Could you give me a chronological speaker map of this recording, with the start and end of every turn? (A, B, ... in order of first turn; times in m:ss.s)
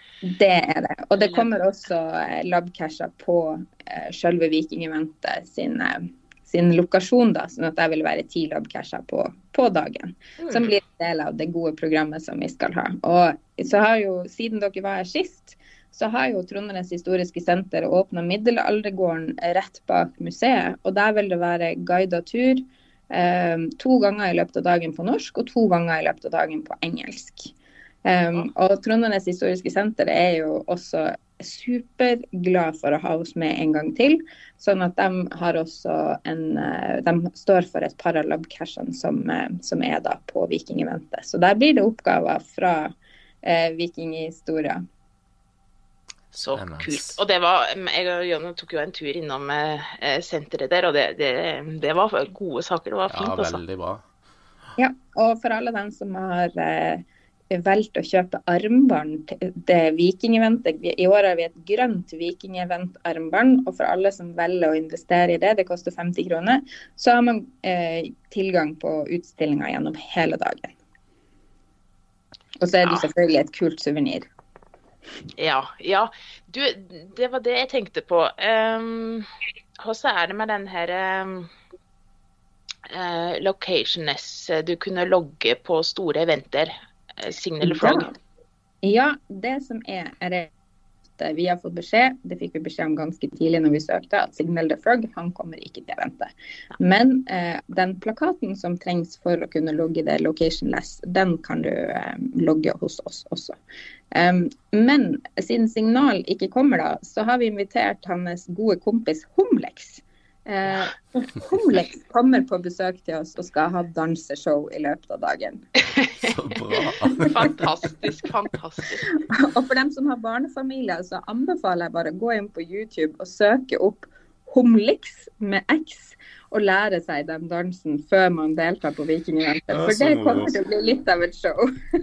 0:00.2-0:44.8 A
0:01.2-0:01.5 B
0:10.4-0:10.7 B
0:46.3-0:47.2 C
0:46.3-0:53.6 B
0:53.1-0:54.0 C
0:54.8-1:10.7 A
1:12.6-1:14.3 A
1:15.4-1:19.3 B
1:19.8-1:21.5 B
1:22.9-1:28.1 B
1:27.6-1:28.1 A
1:28.8-1:30.5 A
1:31.2-1:43.6 A
1:44.1-1:55.6 A
1:56.0-1:56.4 B
1:56.2-1:57.6 C
1:57.2-1:59.2 B
1:59.2-2:11.7 A
2:09.7-2:10.6 C